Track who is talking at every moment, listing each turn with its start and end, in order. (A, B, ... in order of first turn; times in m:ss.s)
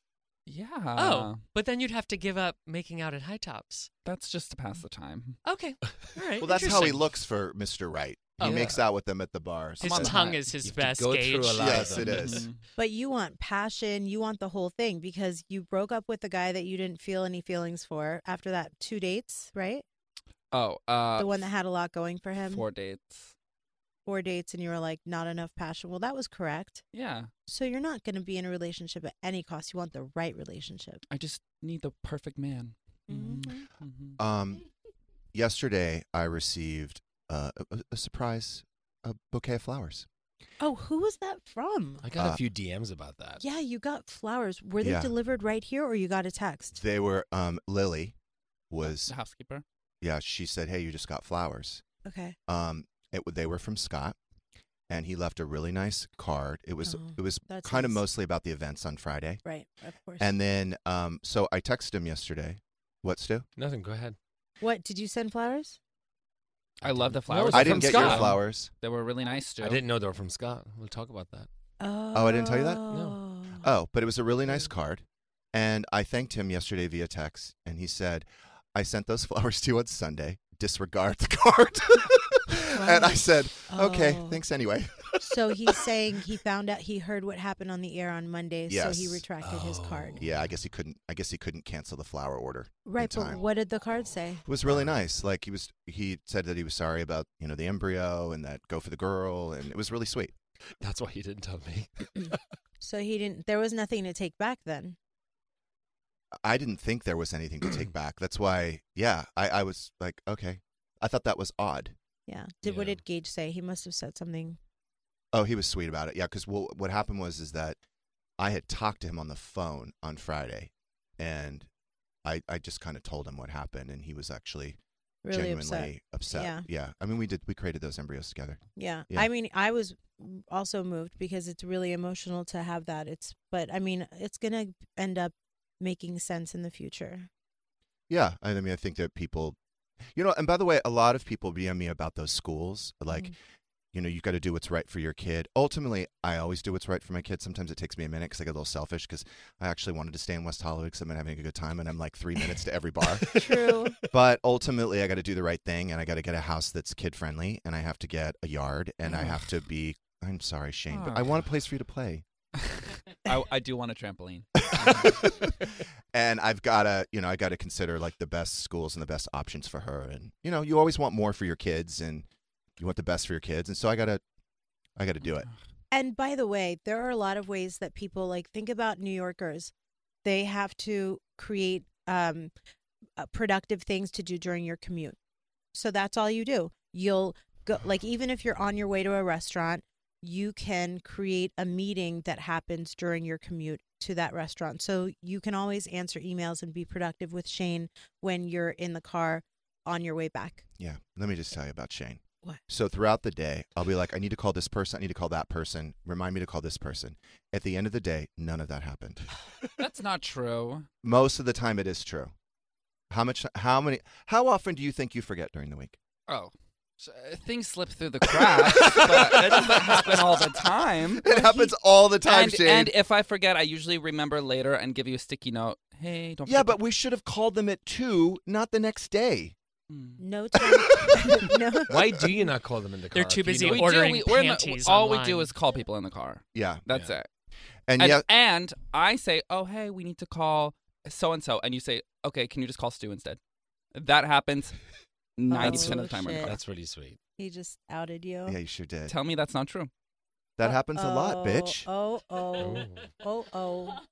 0:00.4-0:01.4 A
0:00.9-0:03.9 B
0:04.0-0:05.4 A
0:05.4-0:07.1 B
0:06.4-0:10.3 C
0:08.4-0:08.8 B
0:08.4-0:08.8 A
0:09.8-0:10.4 A
0:09.8-0:12.2 B
0:10.6-0:12.4 D
0:11.5-0:12.4 C
0:12.0-0:12.6 A
0:12.8-0:19.8 E
0:20.5-0:21.3 A
0:21.2-0:22.6 E
0:22.5-0:23.3 A
0:24.0-0:26.8 E
0:26.9-0:27.3 A
0:27.5-0:31.0 E
0:31.1-0:34.2 A
0:33.1-0:33.6 E
0:34.2-0:34.6 C
0:35.3-0:40.1 C
0:40.6-0:42.0 E
0:42.0-0:43.4 D
0:43.4-0:46.8 E
0:44.8-0:45.1 C
0:46.7-0:48.1 C
0:48.7-0:49.1 C
0:48.8-0:49.6 A
0:50.0-0:51.8 C
0:52.0-0:52.4 E
0:52.5-0:54.2 C
0:54.9-0:59.4 C
0:56.8-0:58.0 E
0:59.4-1:00.3 E
1:00.2-1:03.4 C
1:03.6-1:04.2 D
1:04.6-1:05.8 E
1:06.8-1:09.8 A
1:06.8-1:08.4 D
1:07.5-1:08.7 C
1:09.6-1:11.5 D
1:11.8-1:13.6 E
1:12.1-1:12.8 C
1:12.9-1:13.2 D
1:13.6-1:25.2 C
1:22.7-1:24.4 E
1:25.2-1:30.2 E
1:28.7-1:29.2 C
1:29.4-1:30.4 D
1:30.2-1:33.4 C
1:32.8-1:34.4 E
1:34.4-1:40.3 C
1:40.8-1:42.4 D
1:42.8-1:45.0 E
1:46.4-1:51.9 C
1:52.3-1:54.6 E
1:52.6-1:53.0 D
1:55.3-1:57.8 C
1:58.4-2:01.7 C
2:02.2-2:04.8 C
2:05.2-2:06.6 E
2:05.3-2:09.3 C
2:08.8-2:17.3 E
2:18.1-2:19.6 C
2:20.1-2:23.3 C
2:23.9-2:33.3 C
2:33.3-2:34.0 E
2:33.3-2:33.6 D
2:34.1-2:42.2 C
2:40.9-2:41.4 A
2:43.2-2:45.1 A
2:44.7-2:52.3 C
2:52.8-2:54.2 C
2:55.0-2:55.5 C
2:55.9-2:59.7 E
3:00.2-3:02.5 E
3:03.2-3:05.2 E
3:05.7-3:20.6 E
3:20.8-3:29.2 C
3:29.8-3:30.9 A
3:31.0-3:32.3 C
3:33.1-3:36.0 C
3:36.3-3:41.2 A
3:41.2-3:42.9 C
3:41.2-3:41.7 E
3:42.2-3:46.8 A
3:46.4-3:49.5 C
3:49.9-3:50.2 A
3:50.2-3:51.9 E
3:51.9-3:53.9 D
3:53.1-3:55.5 B
3:53.6-3:57.3 A
3:56.5-3:56.8 C
3:57.9-3:58.2 C
3:58.0-4:03.4 A
4:03.9-4:04.8 A
4:05.4-4:06.6 A
4:05.5-4:06.6 E
4:05.6-4:07.2 D
4:07.4-4:08.6 E
4:08.4-4:09.1 C
4:09.1-4:09.9 A
4:10.6-4:11.9 C
4:10.6-4:14.0 E
4:12.6-4:13.0 D